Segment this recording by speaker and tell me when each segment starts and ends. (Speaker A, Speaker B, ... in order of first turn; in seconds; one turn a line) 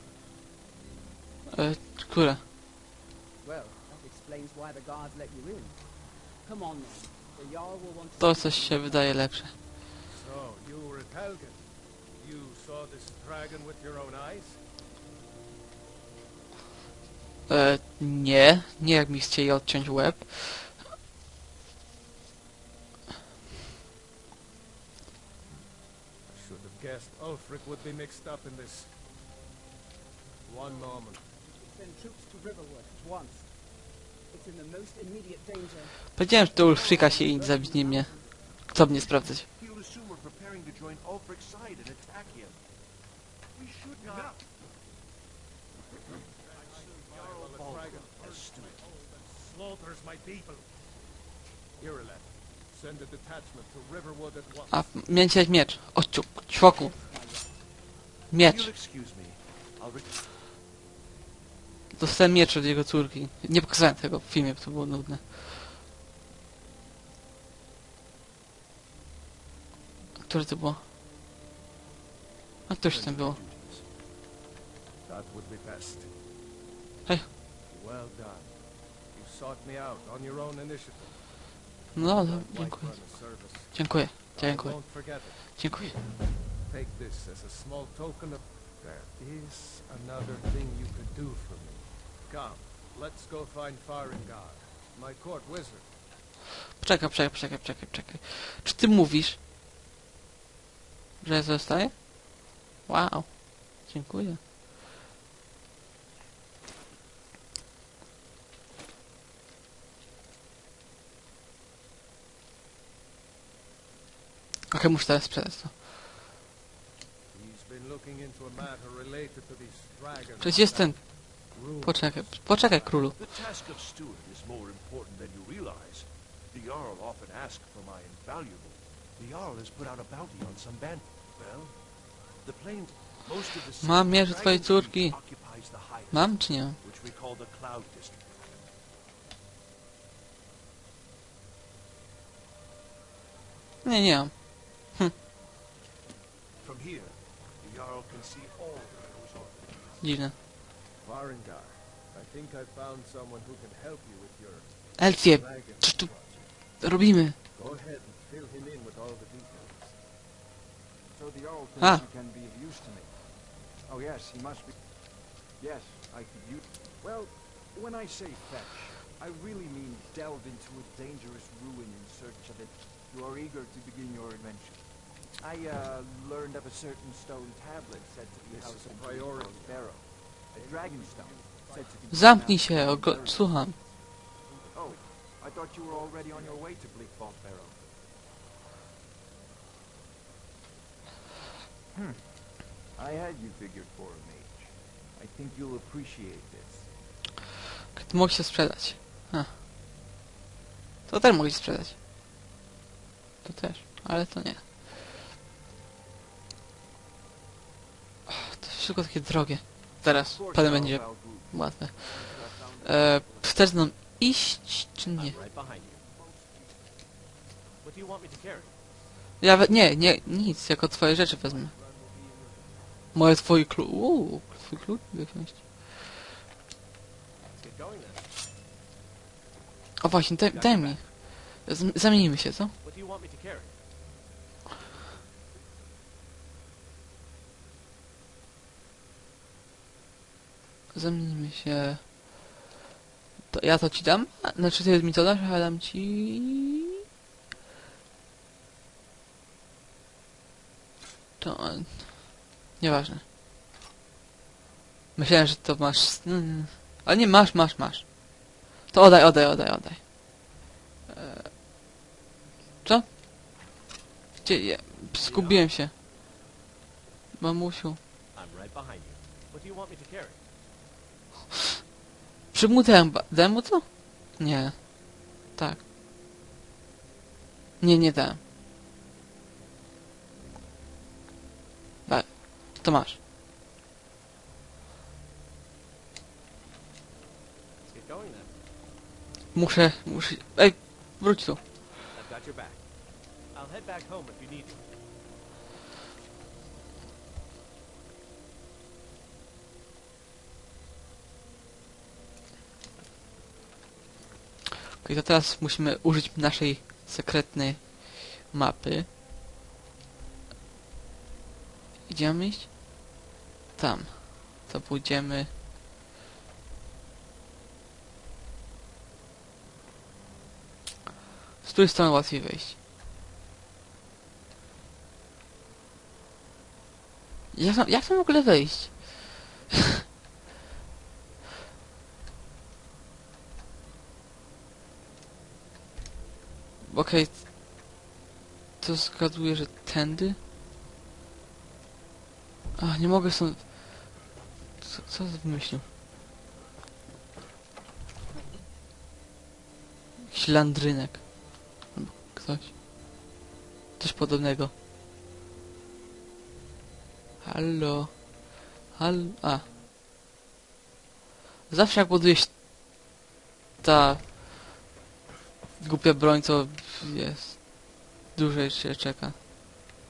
Speaker A: 1.5-2.4
Speaker B: 3.4-9.3
Speaker A: 8.2-9.5
Speaker C: 10.1-14.6
Speaker A: 17.5-20.8
Speaker C: 26.3-29.0
Speaker C: 30.4-31.3
Speaker B: 30.7-36.2
Speaker A: 36.1-39.5
Speaker D: 36.4-37.5
Speaker B: 37.0-38.5
Speaker D: 39.5-42.8
Speaker D: 43.5-44.4
Speaker C: 44.0-44.3
Speaker C: 46.3-50.7
Speaker D: 46.6-48.8
Speaker C: 51.8-55.0
Speaker A: 54.7-56.9
Speaker B: 56.6-57.7
Speaker A: 58.3-58.7
Speaker D: 58.3-60.3
Speaker A: 61.9-65.5
Speaker A: 70.2-70.8
Speaker A: 72.7-73.4
Speaker D: 72.8-73.9
Speaker C: 75.0-76.2
Speaker C: 77.7-95.9
Speaker A: 81.9-86.0
Speaker A: 96.8-99.4
Speaker A: 101.2-104.4
Speaker A: 114.7-115.7
Speaker C: 117.3-122.9
Speaker A: 120.4-121.1
Speaker A: 121.8-123.2
Speaker D: 122.6-138.7
Speaker A: 133.8-135.4
Speaker A: 136.1-136.8
Speaker A: 143.8-145.1
Speaker D: 146.6-150.2
Speaker A: 150.0-150.3
Speaker C: 150.9-156.8
Speaker A: 155.0-156.1
Speaker A: 156.8-157.4
Speaker C: 157.5-160.0
Speaker E: 161.1-183.5
Speaker A: 161.8-162.0
Speaker C: 178.5-179.7
Speaker C: 180.5-182.0
Speaker A: 182.1-183.8
Speaker E: 184.7-187.8
Speaker C: 185.9-186.6
Speaker E: 191.9-196.9
Speaker A: 197.9-199.5
Speaker A: 201.1-202.0
Speaker A: 203.4-204.6
Speaker A: 208.3-215.3
Speaker E: 210.2-213.7
Speaker D: 212.3-212.8
Speaker F: 215.1-216.0
Speaker E: 215.2-217.1
Speaker F: 217.8-218.8
Speaker A: 219.4-221.8
Speaker E: 219.5-222.9
Speaker A: 223.1-225.8
Speaker F: 227.5-228.3
Speaker A: 230.0-232.7
Speaker F: 230.4-231.1
Speaker F: 232.8-233.8
Speaker A: 240.9-242.5
Speaker A: 243.5-246.8
Speaker A: 251.4-253.2
Speaker A: 255.1-260.6
Speaker A: 261.1-261.5
Speaker A: 262.8-263.1
Speaker A: 264.4-265.9
Speaker F: 265.1-265.7
Speaker A: 267.4-268.0
Speaker F: 268.3-270.4
Speaker A: 272.5-275.8
Speaker A: 277.8-278.4
Speaker A: 282.1-283.2
Speaker F: 287.9-288.5
Speaker A: 289.5-291.6
Speaker F: 292.1-294.8
Speaker A: 305.0-309.1
Speaker A: 312.1-313.1
Speaker A: 313.8-315.5
Speaker A: 321.6-322.8
Speaker A: 327.5-329.4
Speaker A: 336.8-337.4
Speaker A: 338.8-340.4
Speaker A: 342.8-344.3
Speaker A: 344.8-345.8
Speaker A: 350.3-352.8
Speaker A: 354.0-354.7
Speaker A: 357.4-359.7
Speaker A: 361.7-362.6
Speaker A: 363.8-364.7
Speaker A: 365.8-369.4